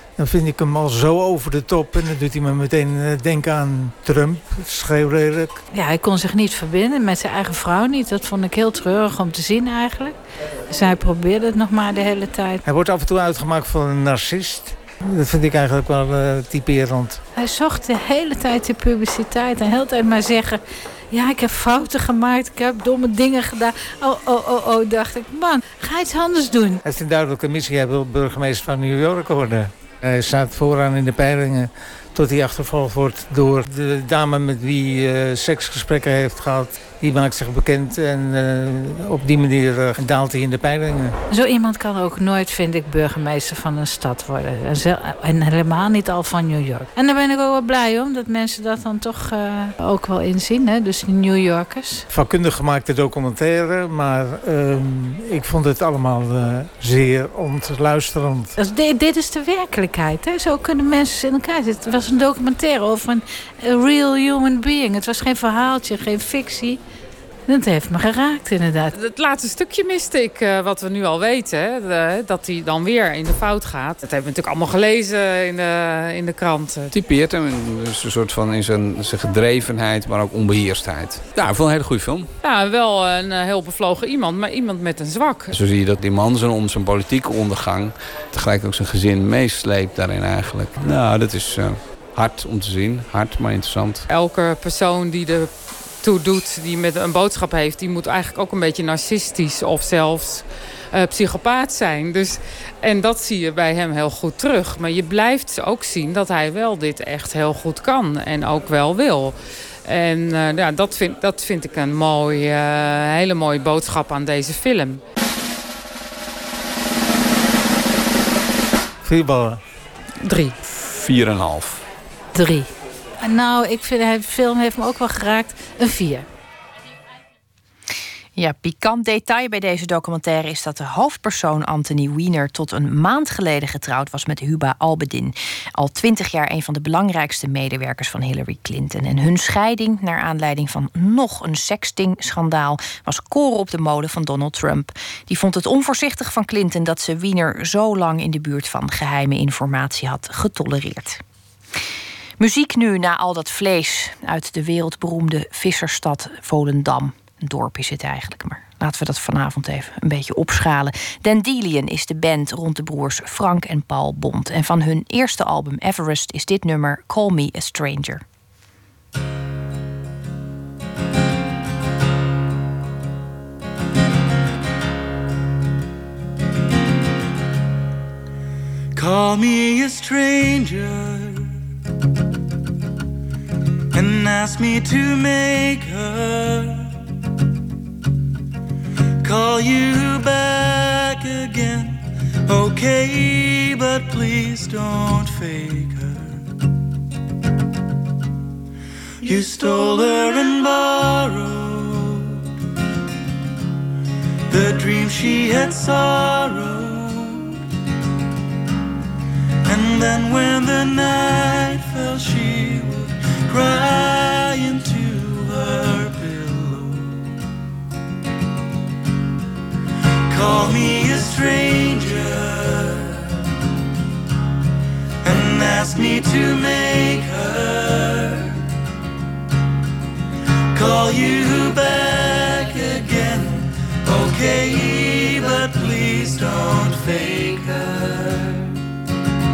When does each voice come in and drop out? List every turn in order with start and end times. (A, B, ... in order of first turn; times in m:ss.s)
0:00.2-0:05.6 A
0:05.7-0:12.6 B
0:12.6-0:17.2 A
0:17.3-0:26.8 B
0:26.8-0:41.2 A
0:41.3-0:52.0 B
0:52.1-0:58.5 A
0:58.6-1:06.8 B
1:07.5-1:08.9 B
1:08.9-1:17.0 C
1:16.9-1:22.3 D
1:22.4-1:25.5 C
1:25.5-1:34.1 D
1:34.1-1:55.0 C
1:59.0-1:59.6 A
2:00.2-2:00.6 C
2:00.8-2:01.8 D
2:02.3-2:02.7 B
2:03.2-2:06.3 B
2:08.4-2:31.2 E
2:32.4-2:48.2 E
2:58.9-3:01.5 F
3:03.9-3:06.9 F
3:09.2-3:16.4 F
3:19.2-3:22.4 F
3:24.5-3:27.5 F
3:29.7-3:37.2 F
3:40.3-3:43.1 F
3:45.2-3:48.6 F
3:50.7-3:58.7 F